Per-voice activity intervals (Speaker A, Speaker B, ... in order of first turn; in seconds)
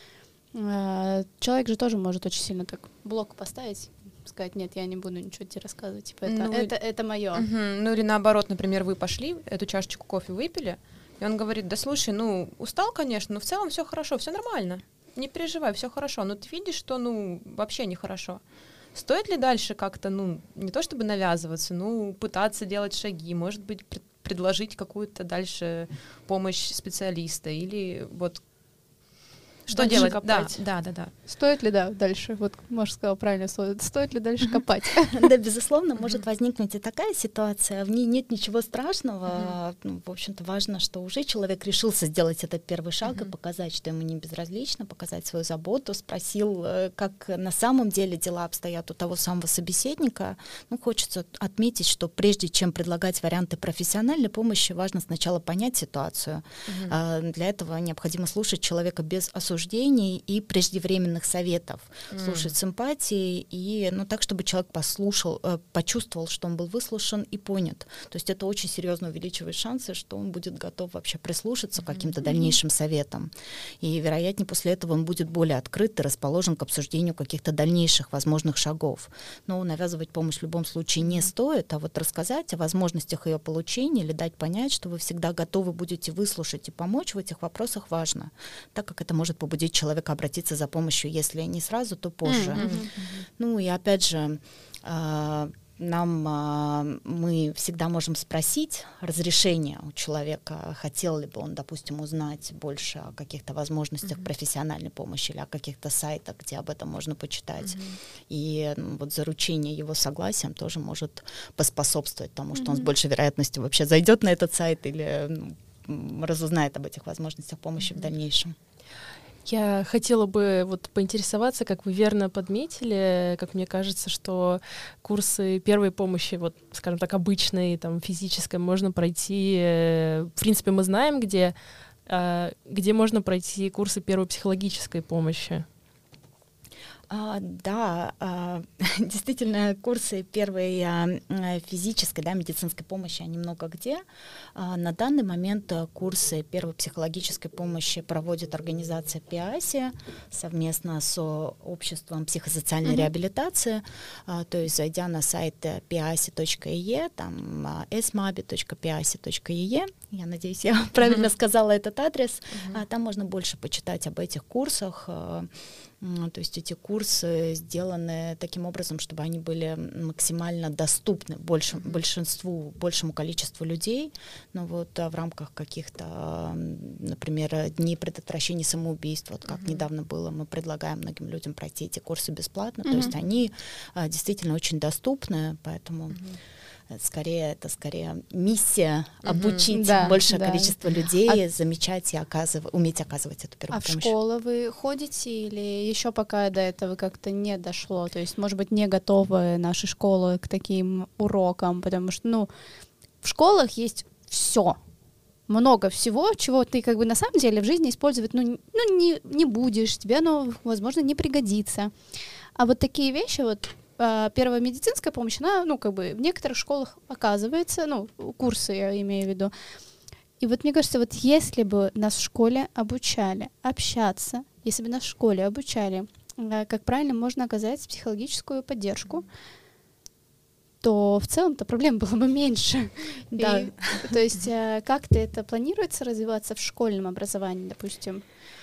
Speaker A: 0.5-7.4, 29.7-30.1, 31.3-35.2, 92.3-92.9, 182.8-183.1, 189.7-190.7, 193.7-202.5, 203.2-204.8, 205.5-211.9, 212.6-219.5, 220.4-229.2, 230.8-238.2
Speaker B: 6.3-6.7, 7.3-18.4, 18.9-28.4, 29.6-31.1, 56.7-57.0, 62.1-62.5, 92.5-93.1, 107.7-108.0, 162.5-162.8, 179.5-179.8, 189.2-189.7
Speaker C: 29.8-30.6, 119.4-131.5, 132.1-135.7
Speaker D: 35.1-73.3, 73.8-92.8, 93.4-118.5, 137.1-144.0, 144.5-165.5, 166.0-186.2, 186.9-194.1, 233.3-234.1